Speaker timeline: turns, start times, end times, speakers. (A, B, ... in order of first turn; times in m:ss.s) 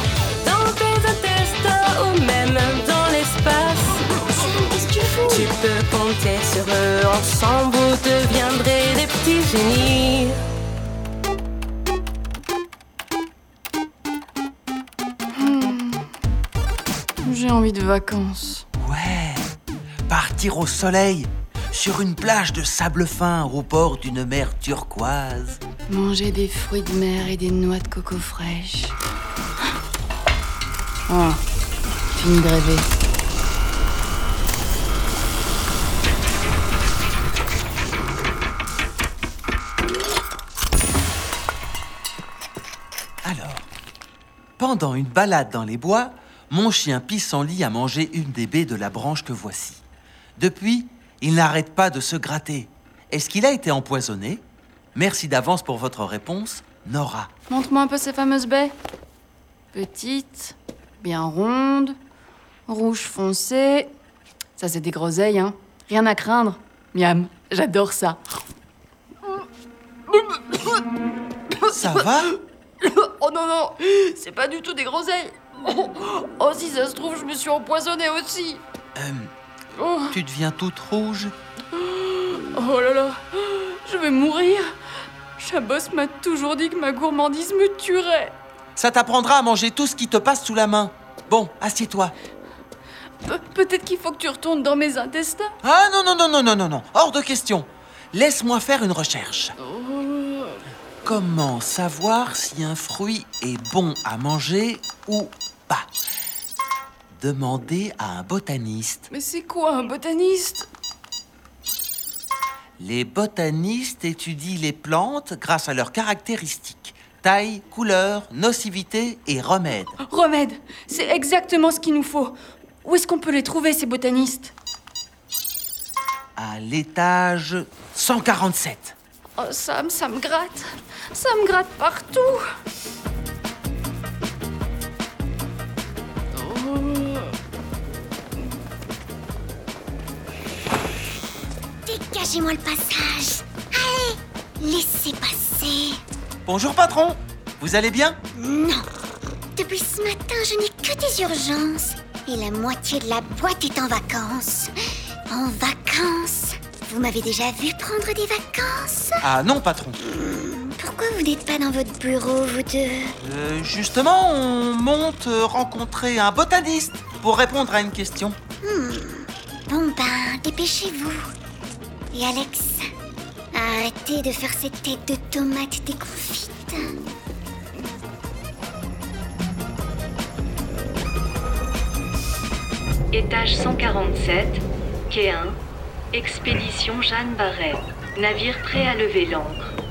0:00.4-0:04.1 A
0:04.4-0:05.5 B
0:05.3-0:10.4 A
0:15.3-0:16.1 C
0:17.2-0:18.6 C
0:18.8-0:19.5 D
0:20.1-0:25.6 D
0:25.9-0:29.0 C
0:31.1-0:31.4 C
0:32.2-0:32.9 C
0:43.2-0:43.7 D
0:44.6-0:49.8 D
0:50.4-0:57.3 D
0:57.5-0:58.8 C
0:59.7-1:02.0 C
1:02.7-1:03.9 C
1:04.6-1:08.2 C
1:10.1-1:10.8 C
1:11.6-1:18.6 C
1:11.7-1:12.3 D
1:19.0-1:19.3 D
1:19.8-1:20.2 C
1:20.1-1:21.3 D
1:21.7-1:24.7 C
1:25.4-1:28.4 C
1:28.8-1:32.2 D
1:33.2-1:35.5 C
1:35.6-1:39.6 D
1:39.6-1:40.6 C
1:41.0-1:45.9 D
1:47.2-1:49.1 D
1:49.1-1:50.7 C
1:52.8-2:00.0 D
2:00.1-2:04.5 C
2:06.4-2:09.0 D
2:09.4-2:12.4 C
2:16.3-2:17.4 C
2:21.9-2:26.0 B
2:26.5-2:28.2 D
2:28.4-2:28.9 B
2:29.6-2:34.7 B
2:35.3-2:39.2 B
2:39.2-2:40.0 D
2:40.0-2:43.1 B
2:43.2-2:48.4 D
2:48.6-2:51.3 B
2:52.1-2:52.9 B
2:53.5-2:57.0 B
3:03.1-3:05.6 E
3:06.1-3:09.8 E